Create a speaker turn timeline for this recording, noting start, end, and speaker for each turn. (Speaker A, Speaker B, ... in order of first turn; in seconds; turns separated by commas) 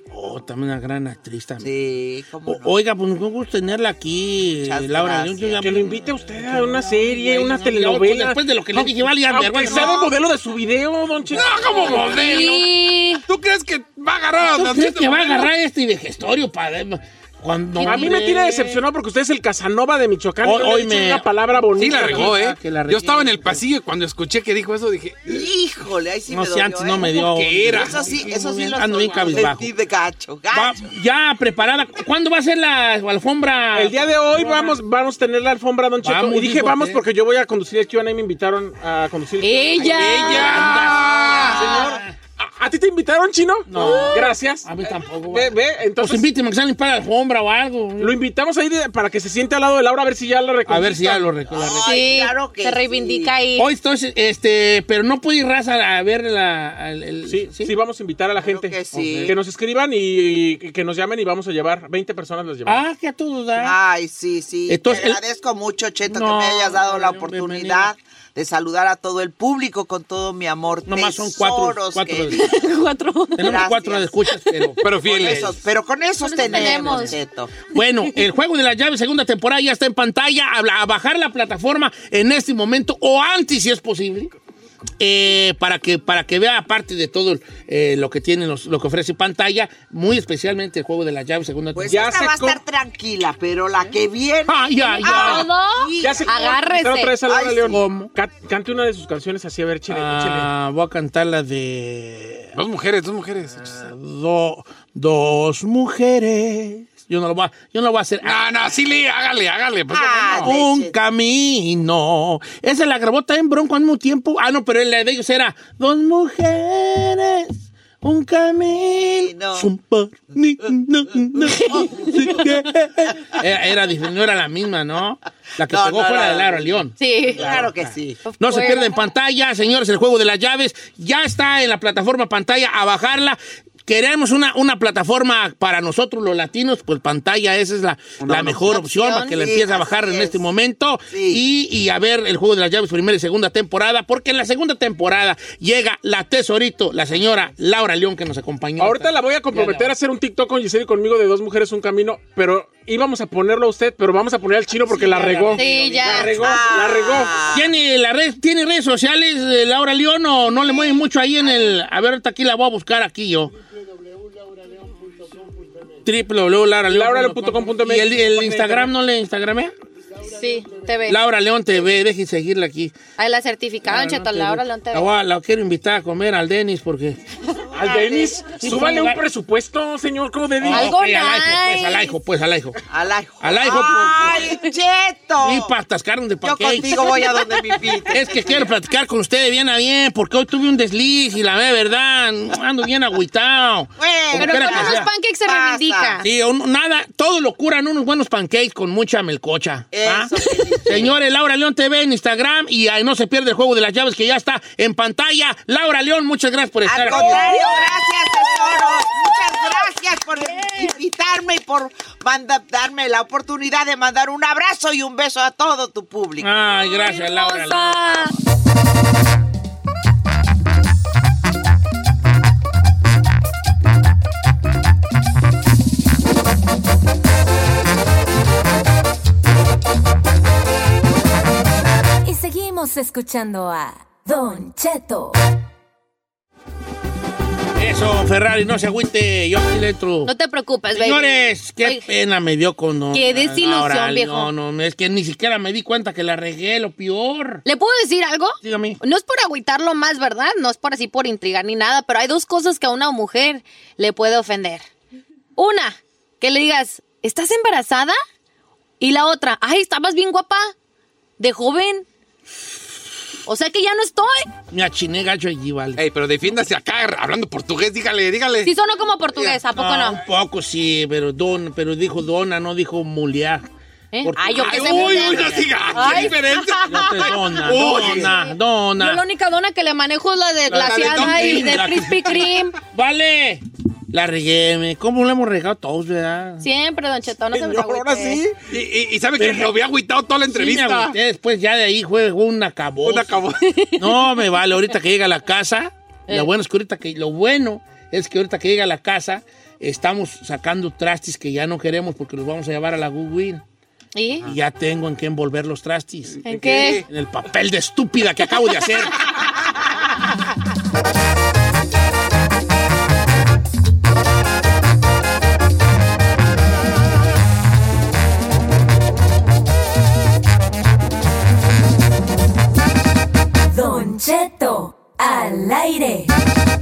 Speaker A: 0.1-1.7, Speaker B: 1.6-2.7, Speaker A: 2.5-10.0, Speaker B: 4.6-5.8, Speaker C: 5.6-12.0, Speaker B: 9.6-10.1, Speaker D: 11.3-12.7, Speaker E: 11.6-13.2, Speaker D: 13.3-15.5, Speaker A: 14.4-18.8, Speaker C: 17.8-22.5, Speaker A: 20.4-23.6, Speaker D: 21.8-25.4, Speaker B: 25.3-30.9, Speaker A: 26.3-29.7, Speaker D: 27.1-28.1, Speaker A: 30.5-34.8, Speaker C: 33.7-40.3, Speaker A: 36.0-37.0, Speaker E: 39.4-40.7, Speaker A: 39.8-42.2, Speaker D: 39.9-41.7, Speaker C: 41.5-46.3, Speaker A: 43.7-48.2, Speaker E: 43.8-44.3, Speaker C: 48.0-51.3, Speaker A: 50.7-52.0, Speaker B: 51.5-53.4, Speaker E: 51.7-53.7, Speaker A: 53.6-57.7, Speaker C: 57.3-62.8, Speaker B: 58.4-59.4, Speaker A: 58.9-59.4, Speaker A: 62.7-63.8, Speaker B: 63.6-72.6, Speaker A: 64.7-65.2, Speaker A: 66.1-67.9, Speaker A: 70.9-72.5, Speaker E: 72.4-73.5, Speaker A: 73.4-75.6, Speaker B: 73.4-74.1, Speaker D: 74.8-75.6, Speaker B: 74.9-77.5, Speaker E: 76.2-77.2, Speaker A: 76.4-77.1, Speaker A: 77.7-84.3, Speaker A: 85.0-92.1, Speaker B: 91.7-96.4, Speaker C: 91.9-92.6, Speaker A: 94.5-95.5, Speaker E: 94.9-97.2, Speaker C: 96.0-100.5, Speaker B: 97.3-97.8, Speaker A: 97.7-98.1, Speaker A: 99.9-102.5, Speaker D: 102.5-103.8, Speaker A: 103.6-108.4, Speaker D: 108.2-110.5, Speaker B: 109.9-111.0, Speaker A: 110.4-149.9, Speaker B: 119.1-119.7, Speaker B: 121.4-122.5, Speaker B: 125.6-128.2, Speaker E: 127.0-127.5, Speaker E: 128.2-129.0, Speaker D: 138.2-138.7, Speaker E: 138.7-139.4, Speaker B: 139.3-140.4, Speaker B: 141.1-141.4, Speaker C: 148.8-157.4, Speaker A: 154.9-156.3, Speaker E: 155.6-156.4, Speaker B: 156.3-157.7, Speaker A: 157.5-163.5, Speaker A: 166.0-169.7, Speaker C: 166.9-168.9, Speaker E: 170.3-171.2, Speaker A: 171.1-172.9, Speaker E: 173.2-175.1, Speaker A: 173.8-177.2, Speaker C: 177.7-180.9, Speaker B: 177.8-178.3, Speaker A: 177.8-179.2, Speaker A: 180.6-182.8, Speaker E: 180.7-182.2, Speaker B: 182.9-185.7, Speaker A: 183.4-184.6, Speaker A: 185.4-187.2, Speaker B: 186.4-188.8, Speaker A: 188.1-195.1, Speaker B: 194.0-196.2, Speaker E: 194.4-196.3, Speaker A: 196.2-200.3, Speaker B: 199.9-201.1, Speaker A: 200.8-207.9, Speaker B: 206.8-216.6, Speaker E: 207.1-207.9, Speaker A: 216.4-218.1, Speaker E: 216.8-218.3, Speaker F: 232.2-235.4, Speaker A: 237.8-240.3, Speaker E: 240.2-242.1, Speaker A: 240.9-247.6, Speaker E: 243.1-244.5, Speaker E: 247.7-254.9, Speaker A: 248.6-249.0, Speaker E: 255.6-258.2, Speaker E: 259.0-260.7, Speaker E: 261.4-262.1, Speaker E: 263.5-264.5, Speaker A: 264.7-266.0, Speaker D: 266.0-268.7, Speaker E: 268.6-270.2, Speaker A: 269.7-273.7, Speaker E: 274.1-282.8, Speaker A: 274.2-276.3, Speaker D: 274.5-278.4, Speaker A: 276.8-279.2, Speaker A: 280.7-286.6, Speaker D: 280.7-281.9, Speaker E: 286.6-288.4, Speaker C: 287.5-288.6, Speaker D: 288.7-291.1, Speaker A: 289.4-289.8, Speaker A: 290.5-293.4, Speaker D: 293.0-293.7, Speaker E: 293.6-294.1, Speaker A: 294.0-303.6, Speaker E: 304.1-304.5, Speaker A: 304.5-309.2, Speaker D: 306.4-307.1, Speaker E: 306.4-307.0, Speaker F: 323.7-326.3